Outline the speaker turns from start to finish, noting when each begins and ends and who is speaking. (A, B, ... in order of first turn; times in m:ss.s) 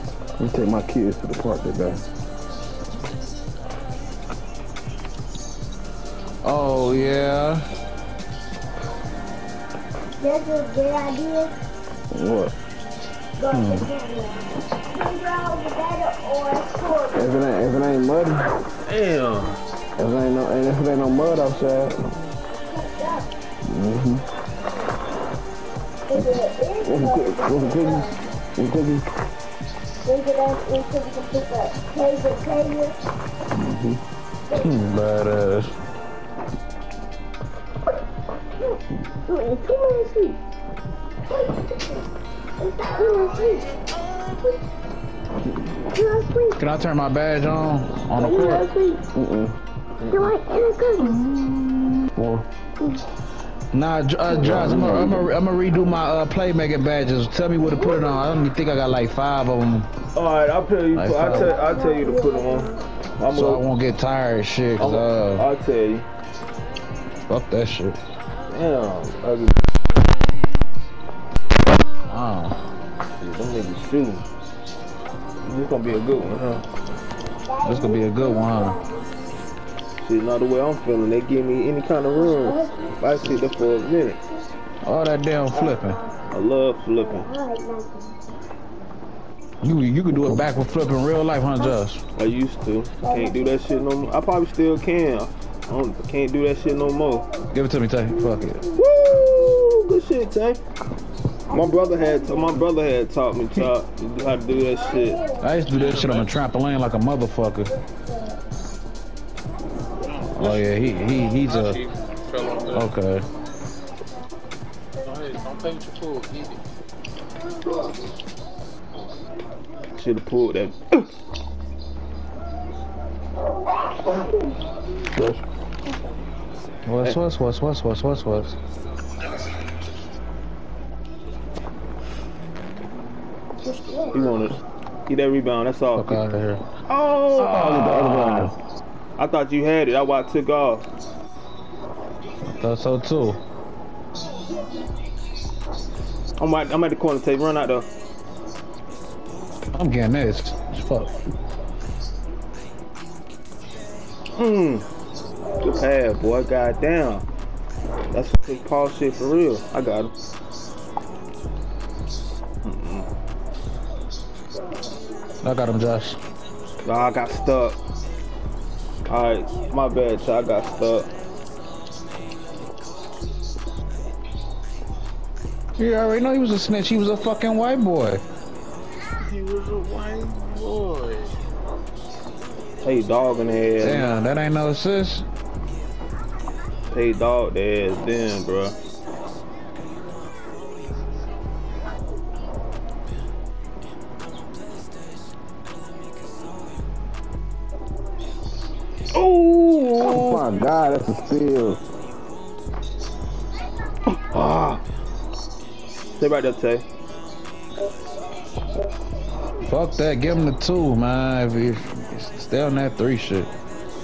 0:00.4-0:02.0 A
0:06.4-0:07.6 B
0:10.2-0:11.6 C
0:12.1-0:12.5 A
0:13.4-0:17.3 C
0:13.5-0:13.9 B
0:17.1-0:18.5 A
0:18.8-0:19.6 D
0:20.0-0:22.1 A
0:22.5-0:23.3 C
0:23.7-0:24.2 A
0:26.1-0:28.2 C
0:26.8-0:29.1 A
0:30.0-0:33.0 C
0:34.5-0:35.8 B
0:39.3-0:40.4 C
0:42.6-0:44.6 C
0:45.8-0:46.6 C
0:46.6-0:48.7 B
0:48.2-0:49.0 C
0:49.1-0:49.6 A
0:50.0-0:51.6 C
0:52.2-0:52.5 A
0:53.7-0:59.9 B
0:54.3-0:55.3 A
0:57.7-0:58.1 C
1:00.2-1:03.6 D
1:01.0-1:01.5 B
1:01.3-1:02.9 C
1:03.3-1:05.5 B
1:04.8-1:06.1 D
1:07.3-1:08.0 B
1:08.5-1:09.6 D
1:12.1-1:12.6 B
1:13.2-1:14.3 D
1:15.4-1:16.6 D
1:17.4-1:19.1 C
1:17.6-1:18.8 B
1:20.0-1:24.2 D
1:22.2-1:23.0 C
1:24.8-1:26.0 B
1:25.7-1:26.1 C
1:26.3-1:27.3 D
1:27.0-1:28.2 C
1:29.6-1:32.0 B
1:32.2-1:37.3 D
1:33.0-1:33.7 C
1:37.5-1:38.6 B
1:38.8-1:40.6 D
1:41.5-1:42.6 C
1:41.5-1:45.2 D
1:44.9-1:45.5 C
1:45.4-1:47.7 B
1:45.7-1:46.3 E
1:50.1-1:50.4 E
1:50.4-1:51.8 B
1:51.4-1:52.8 E
1:52.7-1:53.3 B
1:55.0-1:56.6 E
1:59.9-2:01.0 D
2:04.0-2:04.5 C
2:06.9-2:08.6 B
2:13.6-2:14.2 C
2:14.1-2:16.2 D
2:16.0-2:16.6 B
2:16.9-2:18.5 D
2:17.4-2:18.4 B
2:19.2-2:20.9 D
2:22.5-2:23.4 B
2:26.4-2:27.9 D
2:29.7-2:31.1 B
2:34.3-2:34.9 D
2:35.6-2:37.3 D
2:38.1-2:40.1 D
2:42.6-2:43.1 D
2:45.4-2:46.2 B
2:46.8-2:47.8 D
2:49.1-2:51.1 D
2:55.8-2:58.2 B
2:59.2-3:01.4 E
3:02.8-3:04.1 D
3:03.8-3:05.3 B
3:06.9-3:08.8 D
3:19.1-3:20.5 D
3:20.0-3:21.8 A
3:24.1-3:24.8 D
3:26.2-3:26.8 D
3:29.6-3:33.5 B